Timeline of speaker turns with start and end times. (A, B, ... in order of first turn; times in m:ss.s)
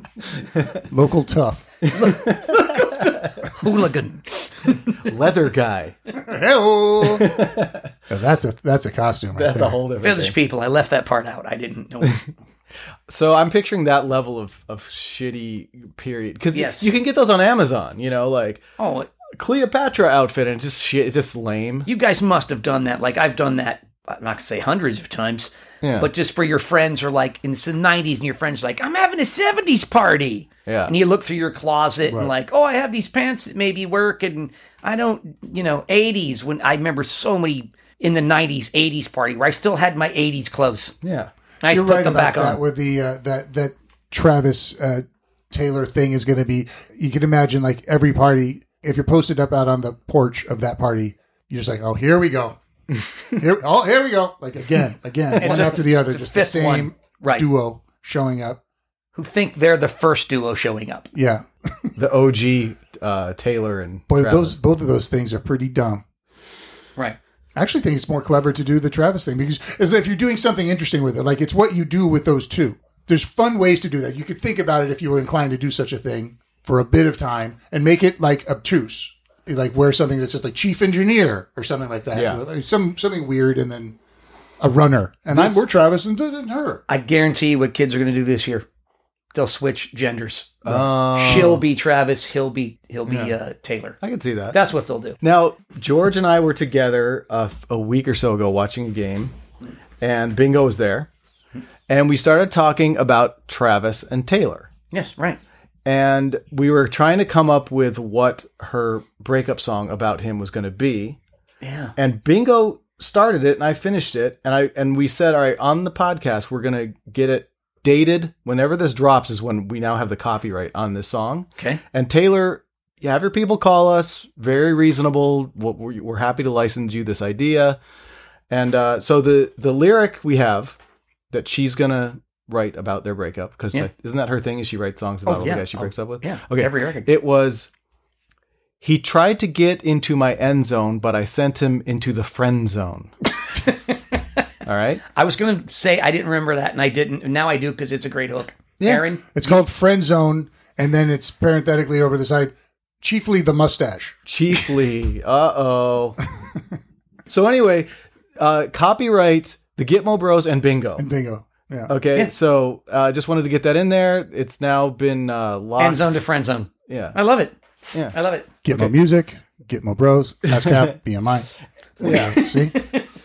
0:00.4-0:00.8 A
0:00.9-0:01.7 B
0:01.8-0:02.7 A
0:01.9-0:05.0 C
0:05.0-0:06.0 A
0:06.2-0:07.3 B
0:07.0-0:07.9 A
0:08.1-0:09.8 B
0:09.4-0:10.4 A
0:10.0-0:12.2 C
0:13.1-0:18.6 A
0:16.5-0:16.9 C
0:18.8-0:19.1 C
0:19.4-0:21.9 A
0:21.8-0:40.9 C
0:25.8-0:26.1 A
0:30.7-0:30.9 A
0:32.1-0:32.3 B
0:41.0-0:41.3 A
0:41.6-0:42.6 C
0:41.7-0:52.6 B
0:53.3-0:58.6 B
0:55.4-0:57.5 C
0:59.2-1:01.1 C
1:01.1-1:01.9 B
1:02.0-1:04.5 A
1:04.1-1:06.0 B
1:07.6-1:24.0 B
1:22.1-1:22.4 A
1:24.6-1:26.8 B
1:25.3-1:25.6 A
1:26.9-1:28.6 C
1:29.3-1:34.0 C
1:30.6-1:31.6 A
1:30.6-1:31.6 B
1:34.0-1:34.6 A
1:34.5-1:35.2 C
1:35.2-1:39.3 A
1:40.0-1:41.1 A
1:41.9-1:44.7 A
1:44.9-1:45.4 C
1:45.8-1:51.2 A
1:51.6-1:51.9 C
1:52.0-2:07.8 A
2:08.5-2:10.8 A
2:11.3-2:17.7 A
2:15.2-2:17.1 C
2:18.8-2:23.1 A
2:23.5-2:24.2 C
2:24.6-2:25.0 A
2:25.1-2:29.6 C
2:28.8-2:29.0 A
2:29.3-2:34.1 B
2:34.2-2:36.2 A
2:37.3-2:41.0 A
2:41.0-2:41.9 B
2:41.9-2:46.2 A
2:45.8-2:47.5 C
2:46.9-2:47.2 A
2:48.1-2:48.5 C
2:48.6-2:51.5 B
2:50.5-2:50.9 A
2:52.0-2:52.7 B
2:52.0-2:52.4 A
2:52.0-2:53.0 C